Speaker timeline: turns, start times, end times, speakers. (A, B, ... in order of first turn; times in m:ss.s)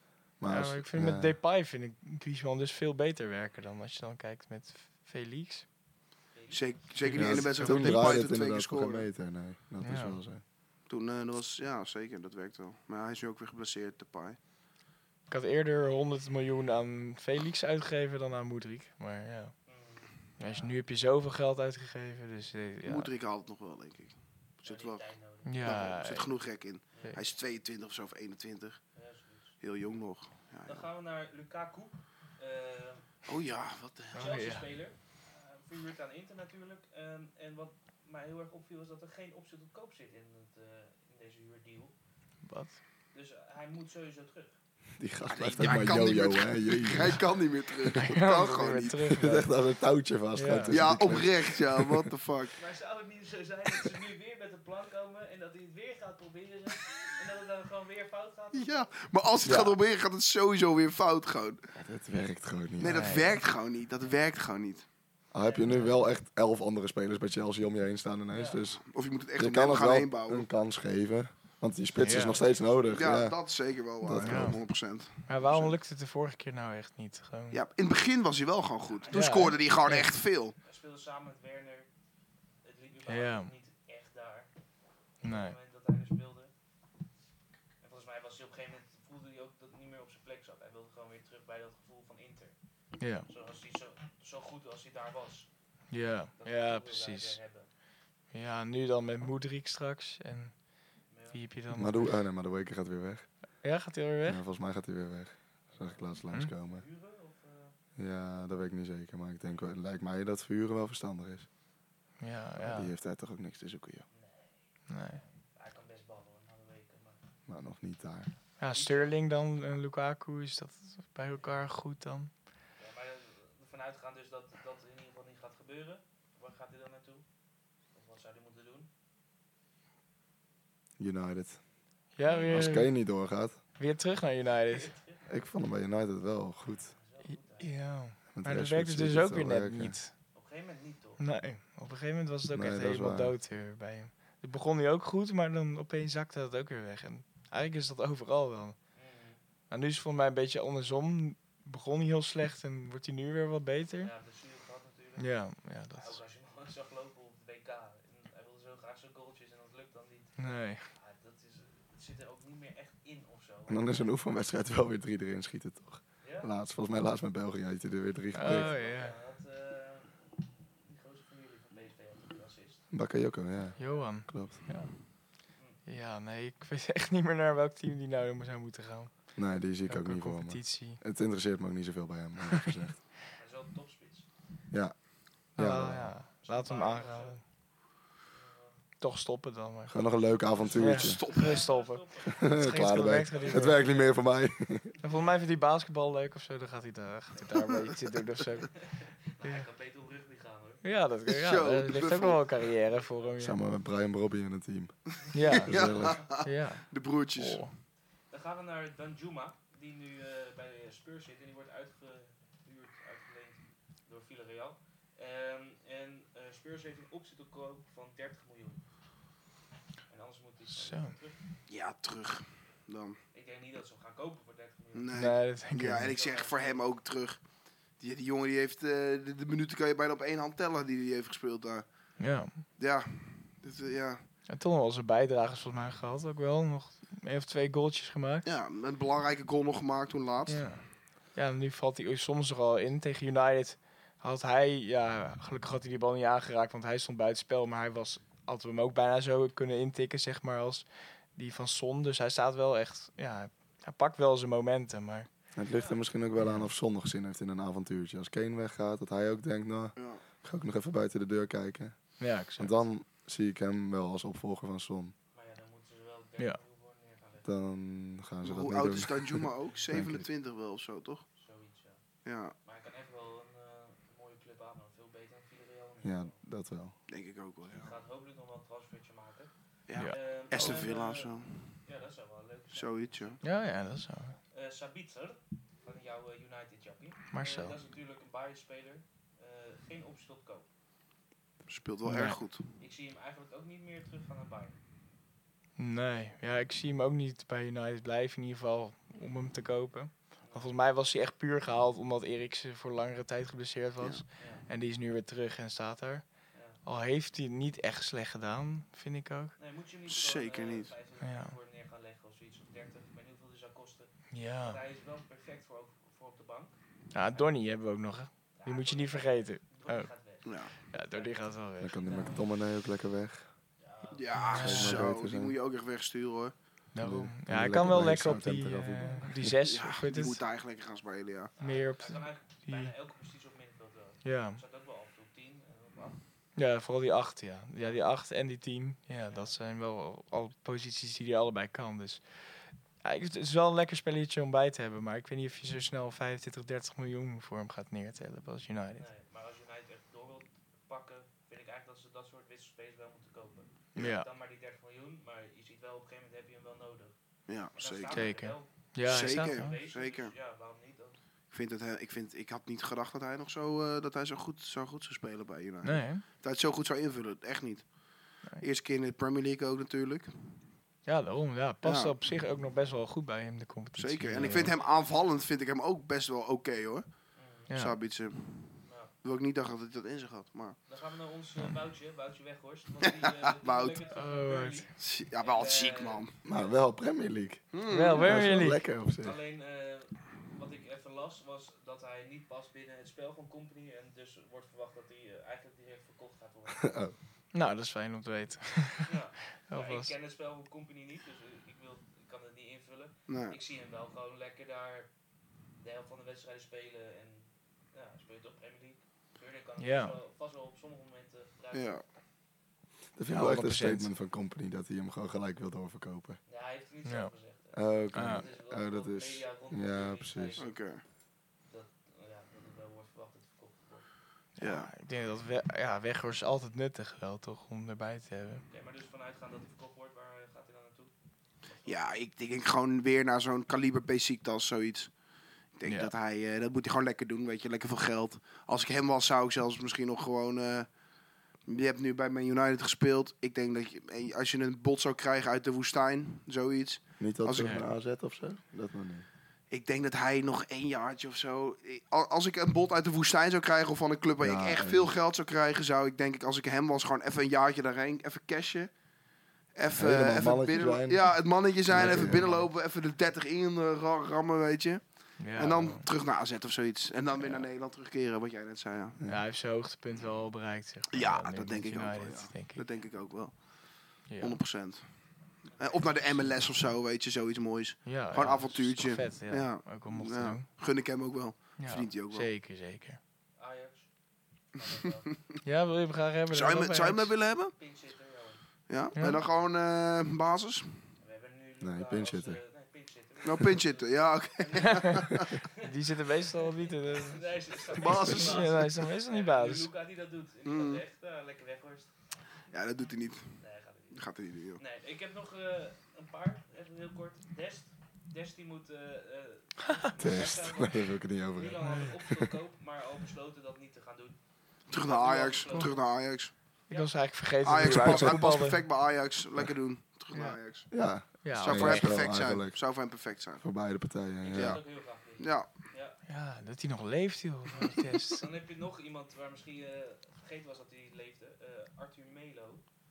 0:00.4-0:01.4 A
0:00.5-0:05.8 B
0:06.3-0:07.3 C
0:06.5-0:09.1 D
0:07.0-0:08.1 B
0:07.1-0:10.4 A
0:09.8-0:10.2 B
0:10.9-0:14.4 D
0:15.3-0:19.7 B
0:19.7-0:20.8 C
0:20.4-0:23.1 B
0:22.8-0:28.8 D
0:24.6-0:25.8 C
0:25.4-0:26.5 B
0:26.9-0:27.2 C
0:28.9-0:29.6 C
0:29.6-0:30.9 D
0:30.7-0:33.1 C
0:33.3-0:34.3 D
0:34.1-0:34.6 B
0:34.2-0:41.9 C
0:42.4-0:42.8 B
0:43.1-0:44.6 C
0:45.0-0:47.3 A
0:45.3-0:49.2 D
0:45.6-0:46.0 B
0:47.9-0:49.5 B
0:49.2-0:52.1 A
0:50.3-0:50.9 B
0:50.7-0:52.6 D
0:52.6-0:59.0 C
0:58.5-1:01.6 D
0:59.4-0:59.8 A
1:01.8-1:03.2 A
1:02.8-1:04.9 D
1:02.8-1:03.4 B
1:05.3-1:14.6 A
1:05.4-1:05.9 C
1:05.7-1:05.9 B
1:08.3-1:08.6 C
1:08.9-1:10.5 D
1:12.0-1:12.4 B
1:12.2-1:13.2 C
1:12.9-1:15.8 D
1:14.1-1:17.6 B
1:17.5-1:20.6 D
1:18.9-1:19.7 C
1:19.1-1:20.1 B
1:20.6-1:21.9 C
1:22.6-1:24.5 C
1:23.1-1:23.5 B
1:25.2-1:26.5 C
1:25.2-1:25.6 B
1:27.8-1:32.6 C
1:33.0-1:33.3 B
1:33.3-1:35.5 C
1:35.9-1:37.4 B
1:36.4-1:37.7 C
1:38.3-1:42.1 B
1:41.1-1:41.4 C
1:41.7-1:43.6 A
1:43.6-1:44.4 B
1:44.2-1:46.9 A
1:45.7-1:47.8 C
1:48.0-1:51.5 A
1:52.2-1:52.9 B
1:52.6-1:54.0 A
1:54.1-1:57.2 C
1:54.9-1:55.2 B
1:57.5-1:58.3 A
1:58.6-2:02.3 B
1:58.7-1:59.2 C
2:01.3-2:01.6 C
2:02.8-2:07.2 C
2:07.9-2:08.9 C
2:11.0-2:11.6 A
2:12.2-2:12.9 B
2:12.3-2:12.5 C
2:12.5-2:13.6 A
2:13.8-2:15.0 B
2:14.7-2:15.2 C
2:15.3-2:16.9 A
2:16.7-2:17.8 C
2:17.3-2:20.1 B
2:18.3-2:20.0 A
2:20.3-2:21.2 C
2:21.2-2:28.8 B
2:22.5-2:23.4 A
2:28.9-2:29.4 C
2:29.7-2:34.1 B
2:34.0-2:44.1 C
2:35.2-2:36.2 B
2:40.4-2:40.8 B
2:43.7-2:48.7 A
2:46.2-2:46.5 C
2:48.3-2:49.2 B
2:48.4-2:50.2 C
2:50.9-2:52.9 C
2:52.9-2:54.7 A
2:53.6-2:54.1 C
2:53.8-2:55.0 B
2:55.6-2:55.8 C
2:55.8-2:59.3 B
2:59.4-3:03.0 A
2:59.9-3:01.0 B
3:03.4-3:04.3 C
3:04.7-3:06.2 A
3:05.6-3:07.4 B
3:06.4-3:07.4 C
3:08.3-3:08.8 C
3:09.0-3:10.2 B
3:09.9-3:11.2 A
3:10.6-3:11.7 D
3:10.7-3:13.9 B
3:11.2-3:14.3 C
3:12.4-3:14.9 A
3:15.0-3:19.7 B
3:18.8-3:20.8 C
3:20.8-3:23.6 B
3:21.3-3:22.4 D
3:22.6-3:23.4 C
3:23.4-3:26.4 A
3:25.3-3:27.7 B
3:25.5-3:27.8 D
3:28.3-3:38.8 C
3:40.1-3:41.4 C
3:40.7-3:41.2 B
3:41.7-3:43.2 D
3:43.3-3:46.8 C
3:44.9-3:47.4 D
3:45.1-3:46.1 B
3:48.0-3:52.0 D
3:52.2-3:52.6 B
3:52.6-3:54.2 D
3:54.5-3:58.5 B
3:58.4-4:00.7 D
4:00.5-4:15.3 B
4:15.6-4:25.1 A
4:15.7-4:16.0 C
4:16.4-4:16.7 B
4:20.0-4:20.2 D
4:22.2-4:22.8 B
4:25.3-4:27.5 C
4:27.4-4:30.3 A
4:28.4-4:31.3 D
4:29.7-4:30.0 C
4:31.4-4:36.4 C
4:32.2-4:32.5 D
4:36.0-4:37.0 A
4:37.1-4:38.0 D
4:37.7-4:43.6 C
4:39.9-4:41.8 D
4:42.7-4:43.4 D
4:43.4-4:44.4 B
4:44.5-4:50.7 C
4:47.3-4:47.8 B
4:51.7-4:52.6 D
4:52.0-4:52.4 B
4:52.8-4:54.8 C
4:55.8-5:09.6 B
5:00.4-5:00.8 C
5:04.4-5:04.7 C
5:06.5-5:06.8 C
5:09.6-5:17.6 C
5:10.1-5:10.9 D
5:11.2-5:11.6 B
5:14.3-5:14.8 B
5:17.1-5:20.1 B
5:18.6-5:22.5 C
5:20.4-5:20.7 D
5:20.9-5:22.1 B
5:21.8-5:23.5 A
5:23.8-5:24.7 C
5:24.1-5:26.6 D
5:24.4-5:25.0 B
5:24.6-5:25.6 A
5:26.9-5:30.4 B
5:27.0-5:29.6 A
5:29.7-5:31.5 D
5:31.6-5:36.2 C
5:31.6-5:32.9 B
5:34.2-5:34.6 B
5:36.6-5:49.1 B
5:37.8-5:38.0 C
5:39.3-5:39.6 C
5:49.0-6:01.2 C
5:54.0-5:54.3 B
5:57.5-6:00.3 D
5:58.1-5:59.7 B
6:01.5-6:10.6 D
6:05.8-6:06.2 B
6:11.0-6:14.7 B
6:11.8-6:12.2 D
6:14.0-6:20.8 D
6:14.4-6:15.4 C
6:17.3-6:17.7 C
6:17.7-6:18.0 B
6:18.8-6:19.1 C
6:20.9-6:26.8 C
6:23.6-6:24.0 D
6:24.1-6:24.9 B
6:25.0-6:26.3 D
6:26.4-6:29.4 A
6:27.7-6:28.4 D
6:27.9-6:28.8 B
6:29.2-6:37.1 C
6:36.8-6:37.2 A
6:37.5-6:40.1 B
6:39.1-6:45.1 C
6:43.3-6:43.6 D
6:45.8-6:52.0 C
6:49.8-6:50.2 B
6:51.7-6:52.0 D
6:53.2-6:56.4 A
6:53.3-6:54.1 B
6:56.5-7:00.9 C
6:57.1-6:57.3 B
6:57.7-7:00.6 A
6:58.1-6:58.4 B
7:00.6-7:01.0 D
7:01.6-7:04.1 C
7:04.6-7:08.6 B
7:04.6-7:04.9 D
7:08.7-7:12.2 C
7:11.8-7:15.2 D
7:15.7-7:20.9 D
7:15.9-7:16.1 B
7:21.6-7:27.8 D
7:27.2-7:29.3 A
7:27.6-7:27.8 B
7:29.7-7:39.0 D
7:34.4-7:35.1 A
7:39.7-7:49.2 D
7:40.0-7:42.5 A
7:41.9-7:42.6 B
7:45.4-7:46.1 B
7:49.3-7:52.9 B
7:51.1-8:02.5 D
7:54.3-7:54.6 B
7:55.6-7:56.5 C
7:58.0-8:00.6 B
8:01.8-8:03.2 B
8:03.6-8:05.4 C
8:05.6-8:07.3 B
8:06.5-8:07.8 D
8:07.7-8:08.7 C
8:08.9-8:11.1 D
8:11.2-8:22.1 C
8:11.8-8:12.6 A
8:13.4-8:15.6 D
8:15.8-8:19.9 B
8:17.9-8:18.9 D
8:20.6-8:21.0 D
8:22.7-8:24.8 D
8:23.5-8:36.2 C
8:30.2-8:32.5 A
8:34.9-8:36.5 D
8:36.9-8:38.9 B
8:36.9-8:37.2 C
8:37.6-8:43.7 D
8:37.8-8:38.4 A
8:40.3-8:40.6 B
8:40.9-8:44.8 A
8:41.4-8:42.2 B
8:44.4-8:46.2 C
8:44.5-8:45.7 D
8:46.2-8:48.4 B
8:47.8-8:52.8 C